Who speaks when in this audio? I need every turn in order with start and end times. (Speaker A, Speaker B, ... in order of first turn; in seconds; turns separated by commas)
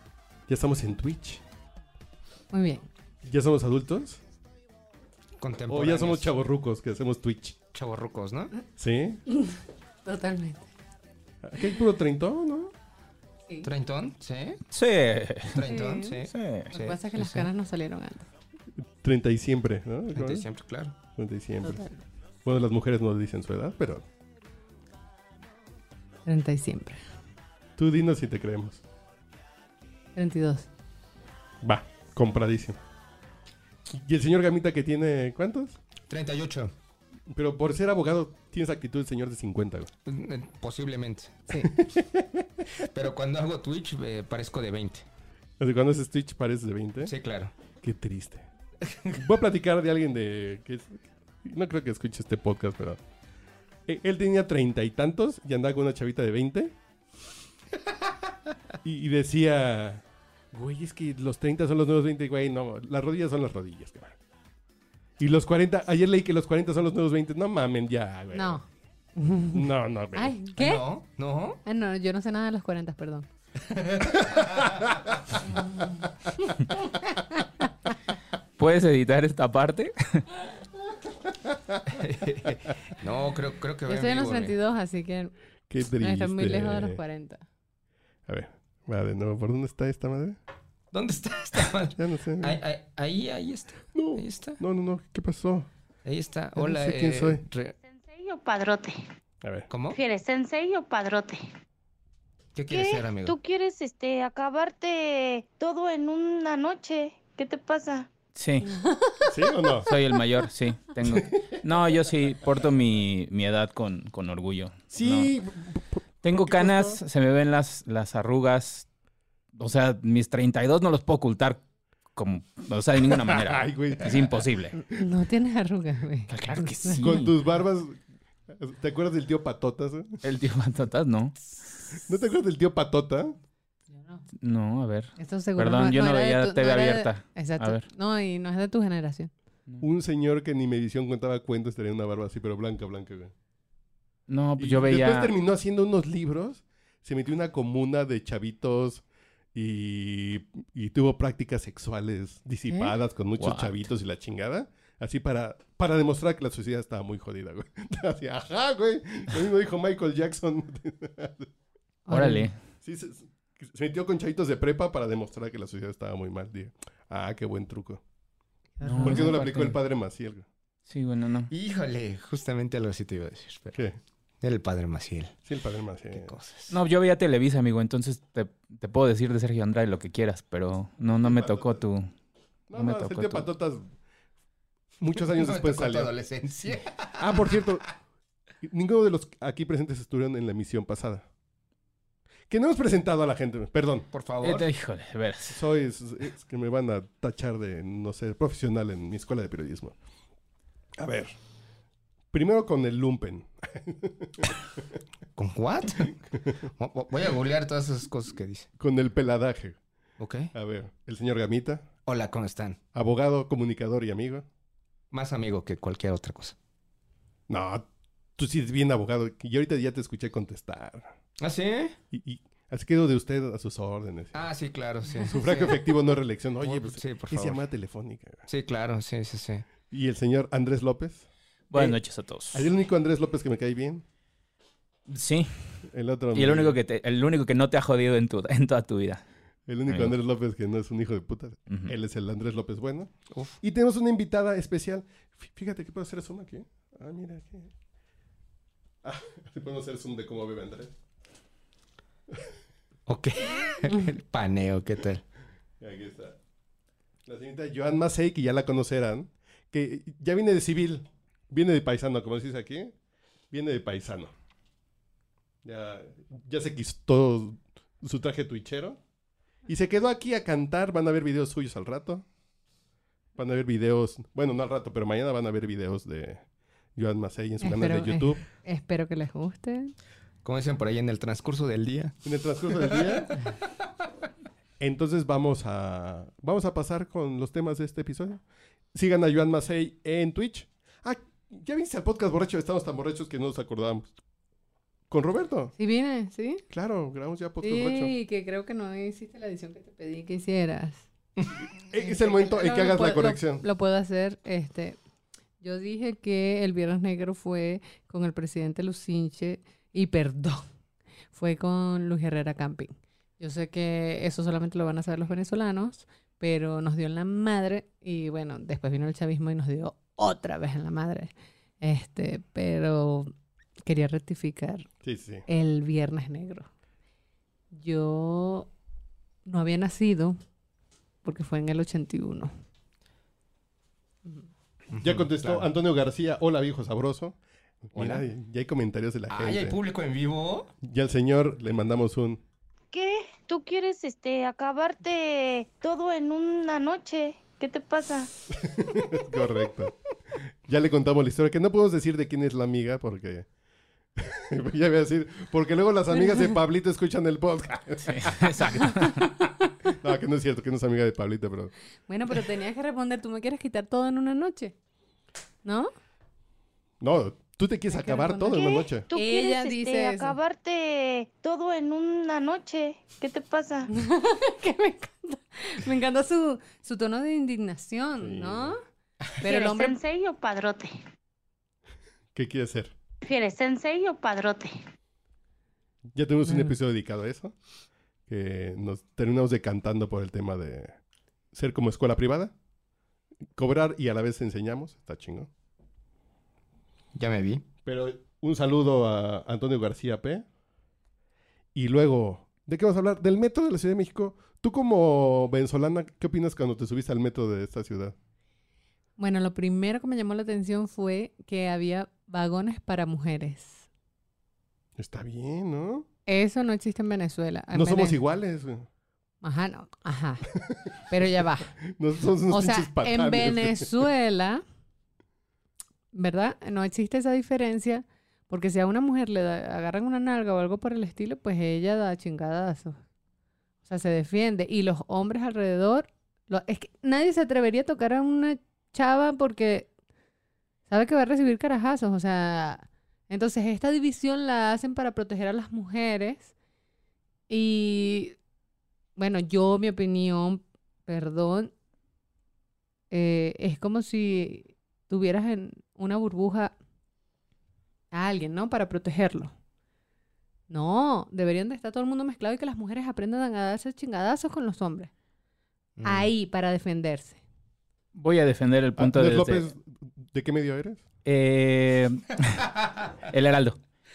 Speaker A: 0.5-1.4, Speaker B: 2.5-2.9, Speaker A: 3.2-4.2, Speaker C: 5.4-6.3, Speaker A: 5.7-7.6, Speaker C: 7.7-8.5, Speaker A: 8.8-9.2, Speaker B: 9.3-10.7, Speaker A: 11.4-12.7, Speaker C: 13.6-14.6, Speaker D: 14.7-15.7, Speaker C: 15.5-17.5, Speaker B: 15.7-16.2, Speaker D: 16.2-16.7, Speaker B: 16.7-18.3, Speaker A: 18.9-20.5, Speaker C: 20.1-20.9, Speaker A: 21.1-21.8, Speaker B: 21.6-22.0, Speaker A: 22.4-24.1, Speaker B: 26.3-27.0, Speaker A: 27.8-28.8, Speaker B: 30.2-30.7, Speaker A: 31.6-32.8, Speaker A: 33.9-35.8, Speaker C: 36.1-36.7, Speaker A: 37.3-39.9, Speaker C: 40.1-41.4, Speaker A: 41.6-42.5, Speaker C: 42.8-45.1, Speaker A: 45.6-47.1, Speaker C: 47.0-47.5, Speaker A: 47.8-48.5, Speaker A: 49.1-53.0, Speaker A: 53.9-56.7, Speaker A: 58.8-64.2, Speaker A: 65.2-68.6, Speaker B: 68.3-68.7, Speaker B: 69.2-70.8, Speaker A: 69.5-70.3, Speaker C: 70.6-71.6, Speaker B: 71.7-73.3, Speaker C: 73.6-74.8, Speaker A: 74.7-75.0, Speaker B: 75.5-76.5, Speaker B: 77.4-77.7, Speaker D: 78.6-80.3, Speaker C: 81.8-84.6, Speaker B: 83.9-87.4, Speaker A: 85.7-87.0, Speaker A: 88.3-90.4, Speaker C: 90.9-94.6, Speaker A: 92.0-92.6, Speaker A: 94.0-95.7, Speaker C: 96.0-97.8, Speaker A: 96.6-97.5, Speaker E: 97.8-99.0, Speaker C: 99.7-100.0, Speaker E: 99.9-101.4, Speaker C: 102.5-103.4, Speaker E: 102.7-108.1, Speaker D: 108.3-108.7, Speaker B: 108.9-109.3, Speaker A: 109.3-109.9, Speaker D: 109.9-115.3, Speaker A: 111.0-111.5, Speaker A: 114.9-117.0, Speaker D: 116.2-118.9, Speaker D: 119.6-121.6, Speaker D: 122.2-124.8, Speaker A: 123.1-124.5, Speaker B: 124.7-127.0, Speaker D: 126.3-127.4, Speaker A: 127.0-130.2, Speaker D: 130.2-131.6, Speaker A: 132.1-133.3, Speaker B: 133.9-134.2, Speaker D: 134.4-137.9, Speaker B: 135.2-139.3, Speaker A: 139.8-143.3, Speaker D: 144.3-145.3, Speaker A: 144.6-161.5, Speaker D: 153.4-153.8, Speaker B: 162.1-162.5, Speaker D: 162.1-162.5, Speaker A: 162.8-168.0, Speaker B: 168.8-169.3, Speaker D: 168.8-169.8, Speaker A: 169.0-170.5, Speaker D: 170.9-171.5, Speaker C: 171.5-173.8, Speaker C: 174.4-175.3, Speaker A: 175.5-176.3, Speaker C: 176.1-176.8, Speaker D: 176.7-182.1, Speaker A: 181.2-181.8, Speaker A: 182.7-183.9, Speaker D: 182.7-183.5, Speaker A: 185.0-186.2, Speaker C: 185.1-187.6, Speaker A: 186.7-187.9, Speaker A: 188.6-191.2, Speaker A: 192.5-194.1, Speaker C: 194.1-194.7, Speaker D: 194.4-195.6, Speaker A: 195.5-200.0, Speaker A: 201.0-201.3, Speaker A: 202.3-204.8, Speaker C: 205.4-208.7, Speaker A: 208.8-209.8, Speaker C: 210.2-210.5, Speaker A: 210.5-211.9, Speaker C: 212.1-212.8, Speaker A: 212.9-214.5, Speaker C: 215.1-216.6, Speaker A: 217.5-217.9, Speaker A: 218.4-221.1, Speaker C: 221.4-222.0, Speaker A: 222.1-224.5, Speaker C: 224.3-225.9, Speaker A: 225.2-228.5, Speaker C: 226.6-227.6, Speaker C: 228.5-229.7, Speaker A: 229.9-232.0, Speaker D: 231.7-232.7, Speaker A: 232.5-234.0, Speaker D: 235.1-239.2, Speaker A: 235.9-236.8, Speaker A: 239.7-247.7, Speaker D: 239.9-240.2, Speaker A: 249.0-250.9, Speaker C: 253.1-255.2, Speaker A: 255.8-256.4, Speaker A: 257.3-262.9, Speaker A: 263.5-264.3, Speaker A: 265.6-269.0, Speaker A: 269.7-272.2, Speaker A: 273.4-276.4, Speaker A: 277.0-278.4, Speaker B: 277.6-279.9, Speaker C: 280.4-282.2, Speaker A: 282.2-283.4, Speaker C: 282.7-283.4, Speaker A: 284.8-288.4, Speaker A: 288.9-294.1, Speaker A: 295.1-295.7, Speaker B: 295.8-296.6, Speaker A: 296.7-298.1, Speaker B: 297.6-301.0, Speaker A: 301.7-303.6, Speaker B: 302.0-305.0, Speaker B: 305.6-310.7, Speaker B: 311.3-323.3, Speaker B: 323.8-324.9, Speaker A: 325.0-325.4, Speaker B: 325.5-326.7, Speaker B: 327.7-328.7, Speaker B: 329.5-330.4, Speaker B: 331.2-332.5, Speaker C: 334.9-335.7, Speaker A: 335.0-339.8, Speaker C: 337.9-338.2, Speaker C: 339.3-340.7, Speaker A: 340.8-342.4, Speaker E: 342.9-348.3, Speaker A: 348.6-349.9, Speaker A: 350.6-353.5, Speaker A: 354.2-358.8, Speaker B: 356.2-356.5, Speaker D: 358.0-359.5, Speaker B: 358.8-359.7, Speaker A: 360.0-361.7, Speaker B: 362.1-364.8, Speaker B: 365.6-365.9, Speaker A: 367.0-369.1, Speaker B: 367.9-370.4, Speaker E: 368.5-373.9, Speaker B: 373.9-378.8, Speaker A: 378.2-378.8, Speaker B: 379.4-380.0, Speaker E: 379.4-381.0, Speaker A: 382.3-382.9, Speaker E: 383.2-384.8, Speaker A: 386.1-387.5, Speaker B: 386.5-386.7, Speaker A: 388.3-391.0, Speaker A: 391.5-392.5, Speaker A: 393.6-395.5, Speaker C: 397.1-397.6, Speaker A: 397.9-400.4, Speaker A: 401.8-408.1, Speaker B: 409.2-413.9, Speaker A: 415.0-416.1, Speaker B: 416.3-418.2, Speaker A: 417.7-418.9, Speaker B: 419.4-420.5, Speaker B: 421.1-421.8, Speaker A: 421.9-424.1, Speaker B: 422.5-424.6, Speaker B: 426.1-433.0, Speaker B: 433.9-439.9, Speaker B: 440.9-446.5, Speaker B: 447.5-448.4, Speaker B: 449.2-451.7, Speaker B: 453.1-456.7, Speaker B: 458.1-459.5, Speaker B: 460.7-465.1, Speaker C: 466.0-466.3, Speaker B: 466.0-467.4, Speaker D: 468.1-469.7, Speaker A: 469.0-471.0, Speaker D: 471.2-473.8